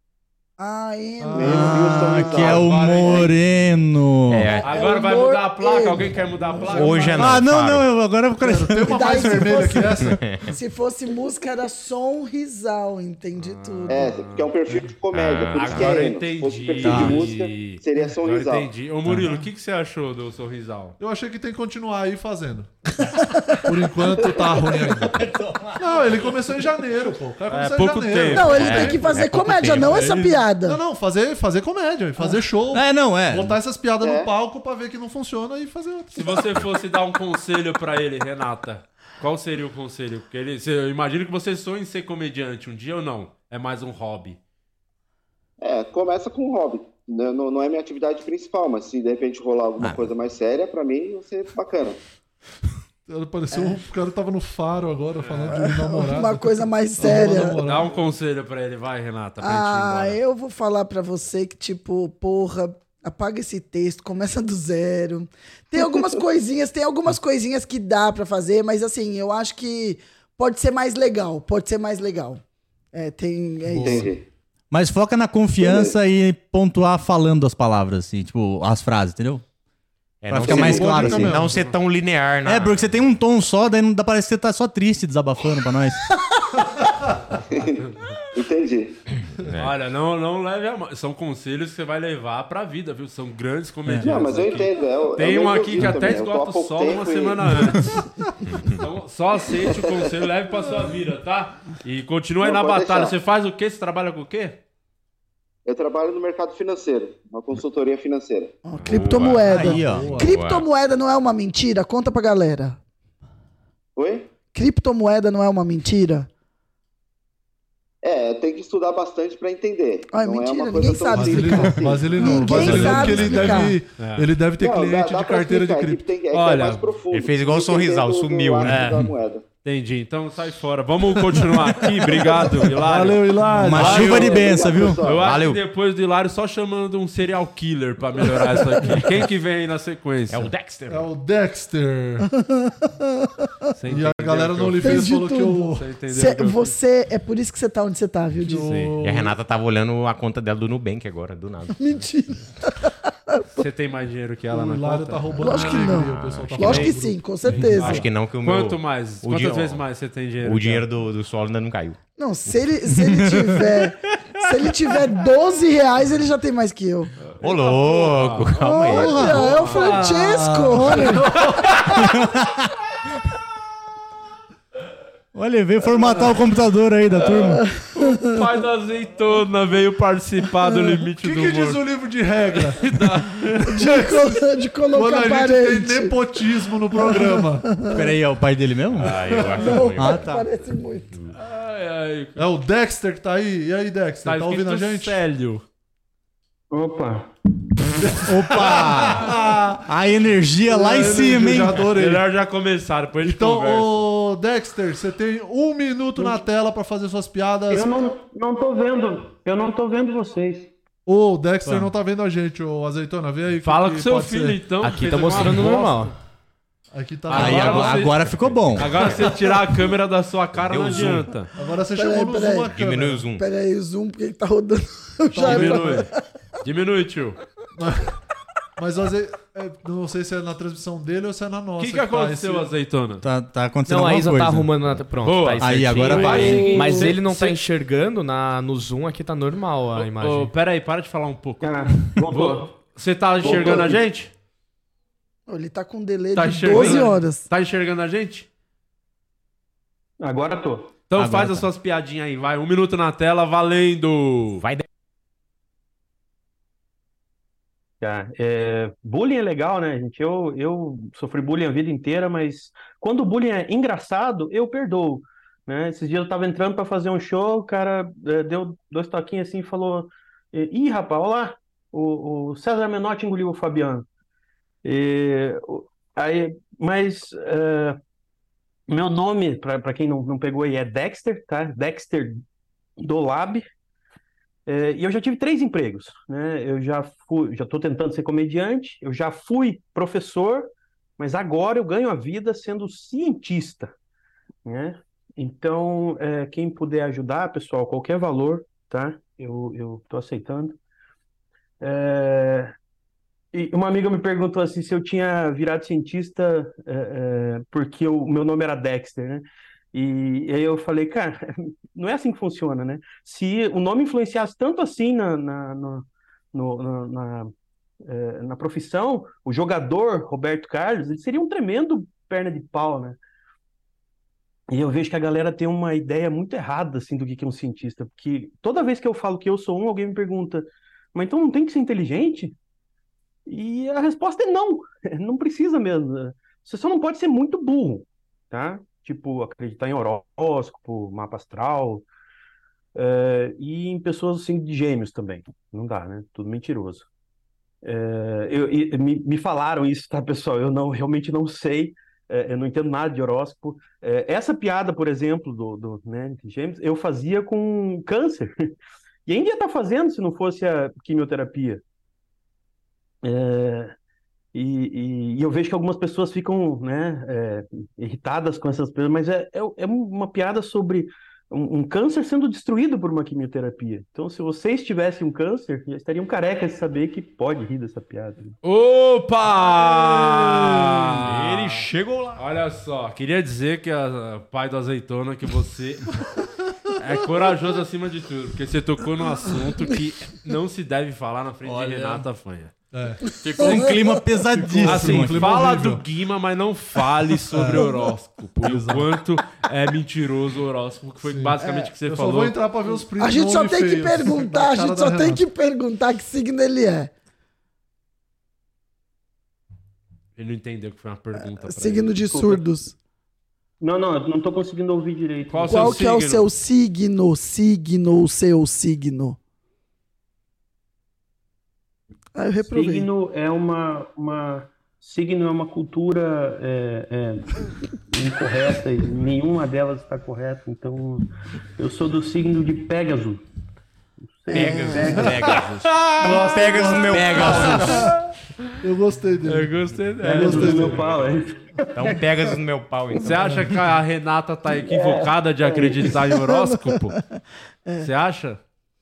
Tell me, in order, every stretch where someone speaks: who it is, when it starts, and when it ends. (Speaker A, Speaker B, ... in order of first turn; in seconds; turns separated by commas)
Speaker A: 0.6-2.3, Speaker B: 1.2-3.4, Speaker C: 1.4-3.3, Speaker D: 1.4-4.5, Speaker E: 4.3-4.7, Speaker F: 4.6-7.3, Speaker A: 4.7-7.2, Speaker E: 6.7-7.9, Speaker D: 7.2-9.7, Speaker B: 8.4-10.2, Speaker A: 8.9-14.1, Speaker E: 10.0-10.5, Speaker F: 13.4-14.5, Speaker C: 13.9-18.7, Speaker E: 15.1-16.1, Speaker F: 15.5-20.9, Speaker D: 16.8-17.3, Speaker B: 21.0-22.7, Speaker B: 23.6-29.2, Speaker F: 27.5-28.7, Speaker A: 28.3-30.8, Speaker E: 28.6-30.2, Speaker F: 29.8-30.4, Speaker B: 30.6-36.4, Speaker D: 32.7-33.6, Speaker C: 34.0-34.3, Speaker F: 36.1-44.4, Speaker C: 45.6-52.0, Speaker E: 49.8-50.1, Speaker B: 53.1-58.0, Speaker A: 53.5-53.8, Speaker A: 55.5-57.6, Speaker F: 57.6-60.2, Speaker A: 59.4-72.4, Speaker A: 72.9-74.1, Speaker B: 73.7-74.1, Speaker C: 73.8-74.2, Speaker D: 74.7-79.4, Speaker C: 75.6-76.0, Speaker E: 80.2-83.0, Speaker D: 80.3-81.4, Speaker B: 80.4-81.6, Speaker C: 80.5-81.3, Speaker D: 82.4-86.1, Speaker C: 87.5-87.8, Speaker C: 88.3-89.0, Speaker E: 89.4-89.7, Speaker F: 89.6-98.0, Speaker C: 94.0-97.6, Speaker E: 98.5-98.8, Speaker F: 98.7-104.6, Speaker C: 99.7-100.1, Speaker C: 102.4-103.2, Speaker C: 105.6-108.6, Speaker A: 108.6-112.8, Speaker E: 108.8-110.7, Speaker F: 108.9-109.2, Speaker D: 109.5-110.2, Speaker B: 109.5-110.3, Speaker C: 114.0-114.3, Speaker A: 114.5-116.3, Speaker C: 118.0-122.9, Speaker A: 120.1-123.8, Speaker B: 121.1-126.0, Speaker E: 122.6-123.6, Speaker F: 124.0-124.3, Speaker C: 124.6-129.4, Speaker F: 126.3-126.8, Speaker E: 127.1-129.1, Speaker F: 128.6-129.1, Speaker F: 129.6-140.5, Speaker B: 132.7-134.5, Speaker D: 133.5-135.0, Speaker C: 133.8-135.4, Speaker E: 135.2-135.6, Speaker E: 140.3-141.1, Speaker B: 140.9-142.3, Speaker A: 142.5-142.9, Speaker F: 143.8-145.1, Speaker B: 143.9-145.8, Speaker A: 144.8-148.7, Speaker F: 145.7-146.7, Speaker B: 148.4-149.3, Speaker F: 148.6-148.9, Speaker E: 149.0-152.0, Speaker A: 151.8-153.4, Speaker F: 153.6-155.4, Speaker B: 154.5-158.0, Speaker A: 155.4-158.0, Speaker E: 155.8-156.8, Speaker F: 156.6-160.8, Speaker E: 157.6-159.8, Speaker E: 160.4-162.0, Speaker A: 162.2-167.1, Speaker F: 167.2-168.6, Speaker E: 167.4-169.7, Speaker A: 168.6-171.2, Speaker B: 169.1-172.1, Speaker F: 169.4-170.2, Speaker F: 171.4-171.8, Speaker D: 171.9-172.5, Speaker D: 175.3-177.6, Speaker A: 177.8-178.3, Speaker F: 177.9-181.8, Speaker B: 181.2-187.8, Speaker F: 182.8-183.7, Speaker A: 183.7-186.2, Speaker A: 186.9-188.1, Speaker D: 187.8-189.2, Speaker E: 188.9-190.3, Speaker B: 189.2-189.6, Speaker A: 189.5-191.2, Speaker D: 189.9-190.4, Speaker F: 191.3-192.4, Speaker B: 192.3-195.2, Speaker F: 194.2-195.6, Speaker G: 196.7-197.3, Speaker B: 198.0-199.9, Speaker D: 198.2-199.3, Speaker D: 199.8-201.8, Speaker B: 200.7-202.3, Speaker F: 201.8-204.1, Speaker B: 203.2-207.9, Speaker G: 207.7-210.7, Speaker B: 211.1-214.7, Speaker F: 213.6-216.1, Speaker H: 214.8-216.1, Speaker B: 216.9-218.1, Speaker F: 217.3-221.5, Speaker D: 217.3-219.1, Speaker E: 218.2-219.3, Speaker E: 220.5-221.3, Speaker B: 221.5-223.2, Speaker A: 221.9-222.7, Speaker E: 222.7-223.4, Speaker A: 223.4-226.1, Speaker B: 225.3-226.0, Speaker F: 225.3-226.1, Speaker F: 226.6-227.4, Speaker B: 227.7-228.2, Speaker B: 228.8-232.7, Speaker F: 231.8-233.2, Speaker D: 233.2-234.9, Speaker H: 233.9-240.5, Speaker F: 235.2-237.6, Speaker D: 235.6-236.7, Speaker G: 236.4-237.1, Speaker F: 239.9-244.3, Speaker G: 241.6-242.7, Speaker G: 243.4-244.0, Speaker A: 245.5-247.4, Speaker F: 246.3-248.5, Speaker G: 246.7-247.0, Speaker G: 250.2-251.0, Speaker F: 251.1-254.6, Speaker D: 251.1-251.7, Speaker E: 254.6-254.8, Speaker G: 258.0-274.1, Speaker G: 274.8-278.0, Speaker G: 278.9-282.4, Speaker G: 283.0-283.6, Speaker G: 284.7-293.9, Speaker G: 294.6-300.8, Speaker G: 301.8-302.7, Speaker G: 303.5-317.5, Speaker G: 318.0-323.2, Speaker G: 324.7-332.5, Speaker G: 333.4-342.1, Speaker G: 342.9-347.1, Speaker G: 347.8-358.7, Speaker G: 359.2-361.8, Speaker G: 363.2-363.9, Speaker G: 364.5-378.5, Speaker F: 378.6-386.2, Speaker H: 381.5-381.9, Speaker F: 386.9-392.7, Speaker D: 391.6-392.2, Speaker B: 392.9-393.9, Speaker D: 393.4-395.6, Speaker A: 393.6-394.1, Speaker B: 394.5-396.0, Speaker F: 394.8-402.6, Speaker B: 397.5-397.9, Speaker B: 398.6-399.1, Speaker B: 401.2-405.4, Speaker A: 401.6-401.9, Speaker A: 403.2-407.1, Speaker F: 410.4-412.2, Speaker A: 411.4-412.9, Speaker G: 412.3-412.6, Speaker G: 413.8-416.0, Speaker F: 415.5-416.4, Speaker A: 415.7-419.4, Speaker A: 422.3-423.1, Speaker G: 422.6-427.5, Speaker G: 428.1-433.4, Speaker G: 434.2-435.6, Speaker E: 434.5-438.1, Speaker A: 434.5-435.0, Speaker B: 436.2-438.2, Speaker F: 437.4-437.8, Speaker B: 438.8-441.1, Speaker F: 439.4-441.3, Speaker G: 440.2-442.2, Speaker E: 441.9-443.7, Speaker F: 443.2-447.2, Speaker B: 443.4-443.7, Speaker G: 444.7-446.2, Speaker A: 446.3-448.1, Speaker F: 448.0-448.6